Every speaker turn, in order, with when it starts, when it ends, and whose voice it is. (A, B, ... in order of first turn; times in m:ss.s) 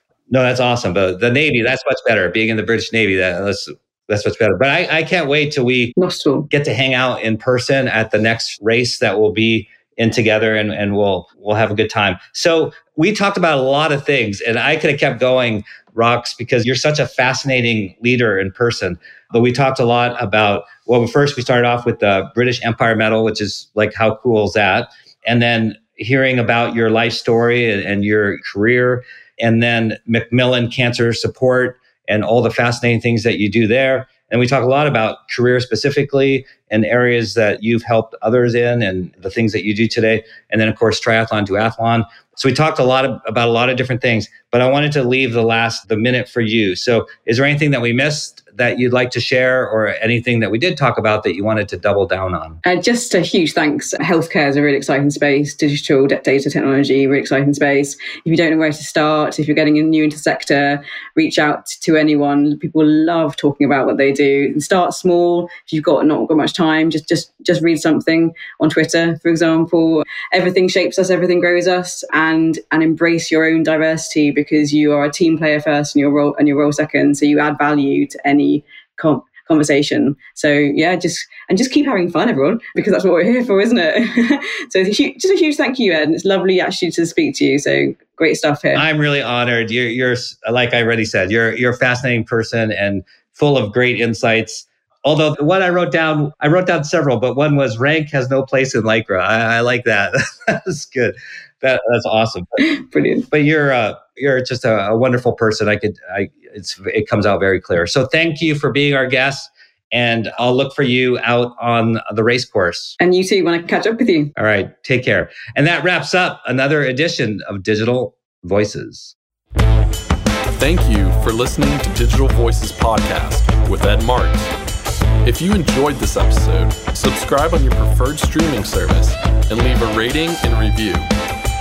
0:00.3-0:06.0 A
0:06.0-0:06.5 B
0:06.5-0:52.6 A
0:52.6-1:28.8 B
1:28.8-1:42.5 A
1:42.6-1:43.3 B
1:43.3-1:53.0 A
1:53.0-1:54.4 B
1:54.4-1:59.1 A
2:00.6-2:04.5 C
2:05.2-2:11.1 C